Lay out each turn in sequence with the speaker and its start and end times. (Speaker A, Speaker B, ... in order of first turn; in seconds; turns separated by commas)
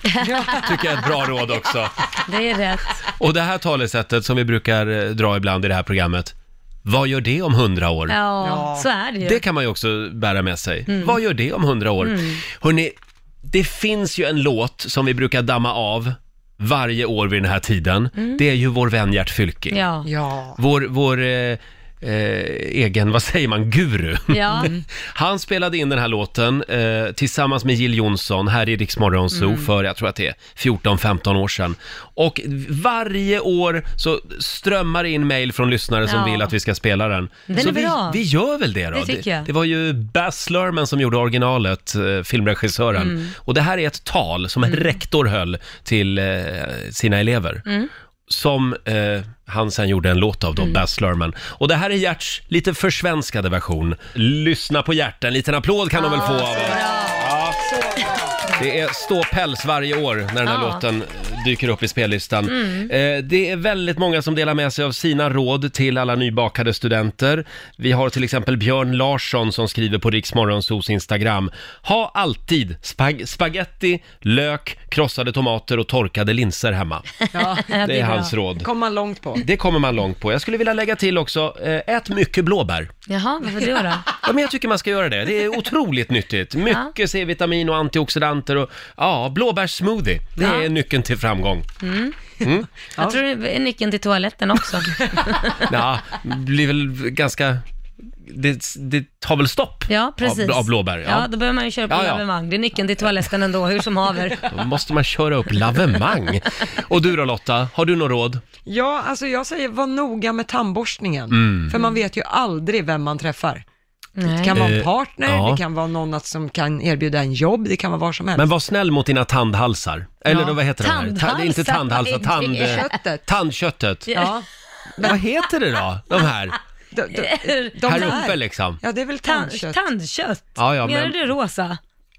Speaker A: 0.2-0.8, Speaker B: 0.5-1.9, Speaker C: 2.3-3.0, Speaker B: 3.1-6.3, Speaker B: 6.8-8.2, Speaker C: 8.1-9.4, Speaker A: 8.4-8.9, Speaker B: 9.2-12.9, Speaker C: 10.9-11.2, Speaker C: 12.0-12.4, Speaker B: 13.4-19.8, Speaker C: 19.7-20.1, Speaker A: 20.0-20.6, Speaker B: 20.6-47.6, Speaker C: 24.3-24.7, Speaker C: 29.3-29.7, Speaker C: 36.0-36.5, Speaker C: 37.5-38.2, Speaker C: 38.9-39.5, Speaker C: 43.0-43.3, Speaker B: 48.3-57.6, Speaker C: 56.0-57.3, Speaker A: 57.6-58.1, Speaker B: 58.6-77.0, Speaker C: 60.4-60.8, Speaker C: 62.5-62.9, Speaker A: 77.3-77.8, Speaker C: 77.5-78.3, Speaker B: 77.8-78.7, Speaker A: 78.6-79.4, Speaker B: 79.4-82.9, Speaker C: 83.1-84.1, Speaker B: 84.2-91.7, Speaker C: 90.4-90.7, Speaker C: 91.8-92.1, Speaker B: 92.4-92.7, Speaker C: 93.0-95.7, Speaker B: 95.7-97.6, Speaker B: 98.2-101.3, Speaker C: 99.9-104.5, Speaker B: 101.9-102.2, Speaker B: 104.5-108.4, Speaker A: 108.7-113.6, Speaker B: 111.3-111.7, Speaker C: 114.2-114.6, Speaker A: 114.2-118.5, Speaker B: 114.5-115.6, Speaker B: 118.3-124.1, Speaker C: 120.3-122.9, Speaker A: 122.6-123.2, Speaker A: 124.1-124.5, Speaker B: 125.0-126.5, Speaker A: 126.9-129.8, Speaker C: 127.1-128.2, Speaker B: 127.8-128.8, Speaker C: 129.2-131.8, Speaker B: 130.6-131.2